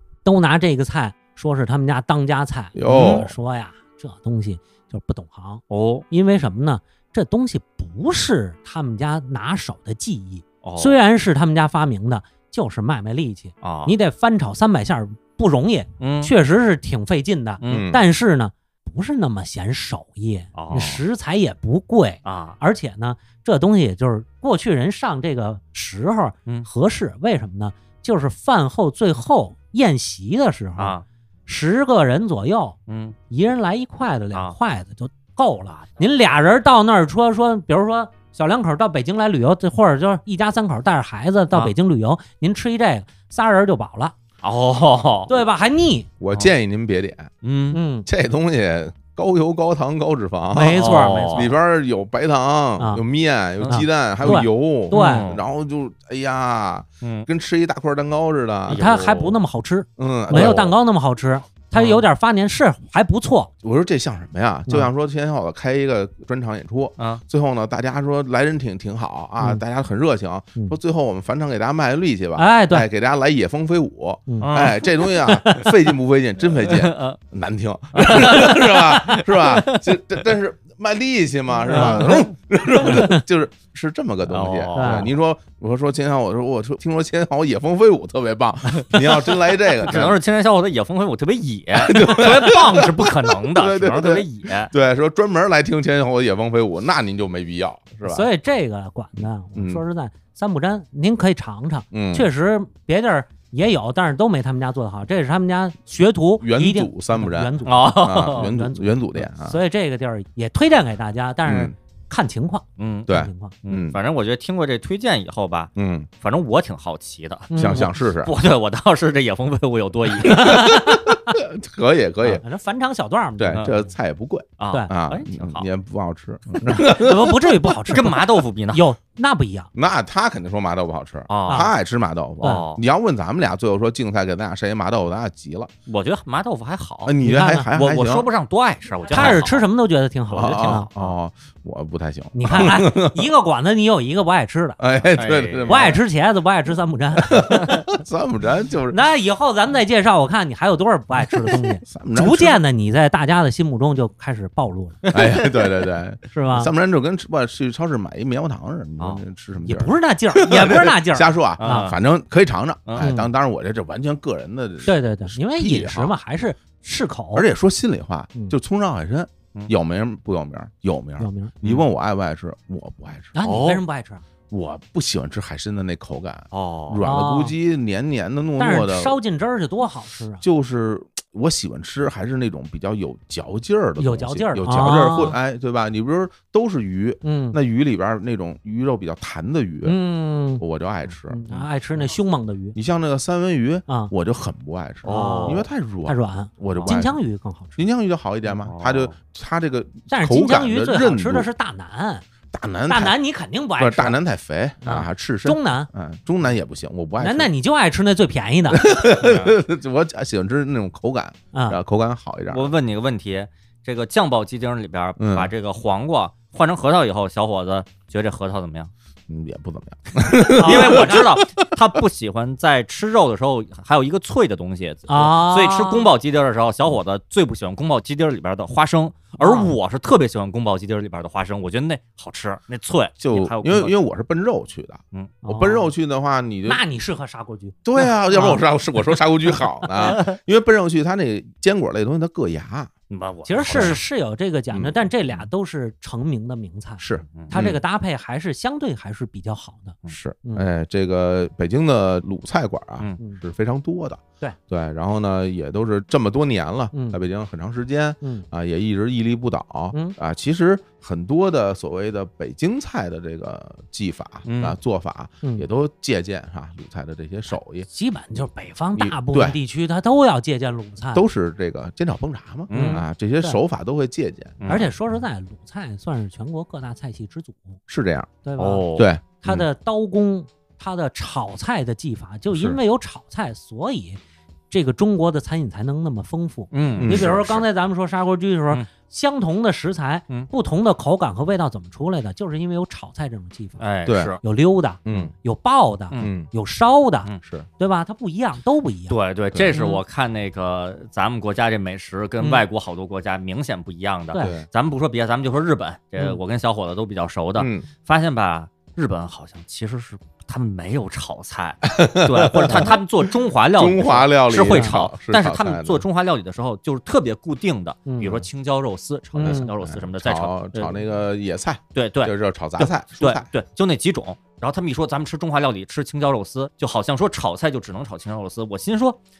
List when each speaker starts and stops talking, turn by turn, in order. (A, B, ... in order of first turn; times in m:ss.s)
0:00.2-0:32.8 A
0:02.8-0:03.3 B
0:02.9-0:03.2 C
0:05.7-0:06.1 C
0:10.6-0:11.0 C
0:13.6-0:13.9 C
0:16.0-0:16.3 C
0:17.6-0:17.9 C
0:17.7-0:18.0 B
0:20.6-0:21.0 C
0:22.2-0:22.6 C
0:30.8-0:31.0 C
0:32.9-0:33.2 C
0:33.3-0:44.2 A
0:44.4-0:45.4 C
0:45.3-0:46.1 A
0:46.2-0:47.3 B
0:47.4-0:47.8 C
0:47.7-0:48.1 A
0:48.1-0:58.9 B
0:50.5-0:51.5 A
0:50.7-0:51.5 C
0:53.6-0:55.4 C
0:53.7-0:55.3 A
0:57.0-0:57.3 C
0:58.7-0:59.4 C
0:58.7-1:03.5 A
1:00.0-1:00.8 B
1:00.3-1:00.6 C
1:01.7-1:02.0 C
1:03.6-1:30.2 B
1:12.4-1:12.9 A
1:14.4-1:15.7 C
1:16.6-1:17.2 C
1:18.0-1:20.0 C
1:21.7-1:22.3 C
1:21.7-1:22.2 A
1:22.9-1:23.2 A
1:24.3-1:25.1 C
1:24.8-1:25.1 A
1:28.7-1:34.7 C
1:31.7-1:38.3 B
1:38.0-1:53.6 A
1:39.6-1:39.8 B
1:41.9-1:42.3 B
1:46.4-1:49.6 B
1:47.6-1:48.5 C
1:51.4-1:51.8 B
1:52.8-2:00.6 C
1:53.1-1:54.0 B
1:55.8-1:56.1 B
1:57.5-1:57.9 A
1:57.6-1:58.3 B
2:00.2-2:01.4 A
2:00.3-2:02.4 B
2:02.3-2:03.9 A
2:03.4-2:07.8 B
2:04.6-2:05.7 C
2:06.6-2:09.7 A
2:07.9-2:08.8 C
2:09.8-2:15.7 B
2:11.3-2:11.7 C
2:12.4-2:12.8 C
2:15.9-2:17.2 C
2:17.0-2:18.3 B
2:17.2-2:17.7 A
2:17.7-2:19.7 C
2:19.1-2:20.9 A
2:20.3-2:23.2 B
2:20.4-2:21.2 C
2:22.3-2:24.8 A
2:24.8-2:26.0 B
2:25.1-2:25.9 C
2:25.7-2:27.5 A
2:27.2-2:29.0 B
2:28.9-2:35.0 A
2:31.3-2:32.6 B
2:35.1-2:35.5 C
2:35.1-2:46.1 B
2:36.3-2:36.7 A
2:39.6-2:41.9 A
2:41.6-2:42.0 C
2:43.0-2:43.3 A
2:44.8-2:47.5 A
2:47.3-2:53.4 B
2:51.2-2:51.5 A
2:53.4-2:54.2 A
2:53.4-2:53.8 C
2:54.5-2:59.2 B
2:56.5-2:57.1 C
2:57.0-2:57.6 A
2:58.6-3:00.4 A
3:00.4-3:10.0 B
3:04.0-3:05.4 A
3:07.2-3:07.6 A
3:09.8-3:10.6 A
3:10.6-3:11.4 B
3:11.3-3:12.8 A
3:12.8-3:17.2 B
3:15.0-3:15.6 C
3:15.0-3:17.8 A
3:17.8-3:21.5 B
3:18.6-3:19.1 C
3:20.1-3:22.2 A
3:22.5-3:23.2 B
3:22.9-3:24.2 A
3:23.8-3:27.5 B
3:24.8-3:25.9 A
3:27.2-3:28.8 A
3:28.7-3:32.7 B
3:29.1-3:29.6 C
3:31.5-3:31.8 A
3:32.5-3:38.9 C
3:35.2-3:35.5 B
3:39.3-3:41.7 B
3:40.6-3:41.2 A
3:40.6-3:54.0 C
3:45.1-3:46.1 A
3:49.4-3:49.7 A
3:53.2-3:56.8 B
3:55.5-3:55.9 A
3:56.7-3:57.8 A
3:57.8-4:02.9 B
3:58.3-3:58.6 A
4:03.1-4:04.0 C
4:03.4-4:10.7 A
4:03.6-4:04.0 B
4:04.7-4:05.0 B
4:07.0-4:07.8 B
4:10.1-4:27.9 B
4:16.9-4:17.2 A
4:18.2-4:18.5 A
4:24.4-4:24.8 C
4:27.9-4:31.2 A
4:29.0-4:29.6 B
4:31.1-4:34.8 B
4:32.7-4:33.0 C
4:32.7-4:33.6 A
4:34.6-4:34.9 C
4:34.7-4:37.8 A
4:37.9-4:38.3 B
4:38.4-4:53.8 A
4:38.6-4:39.1 C
4:39.0-4:39.7 B
4:42.5-4:42.8 B
4:46.7-4:47.4 C
4:47.0-4:47.6 B
4:53.8-4:54.4 C
4:54.1-4:54.4 B
4:54.4-4:59.2 A
4:55.0-4:55.3 B
4:56.2-4:56.5 B
4:57.4-4:57.7 B
4:59.1-5:21.0 C
4:59.7-5:00.0 A
5:04.4-5:04.7 B
5:07.6-5:07.9 B
5:11.8-5:16.0 B
5:12.6-5:13.0 A
5:14.6-5:15.0 A
5:18.1-5:18.5 A
5:19.3-5:19.7 A
5:19.4-5:23.5 B
5:21.9-5:29.2 C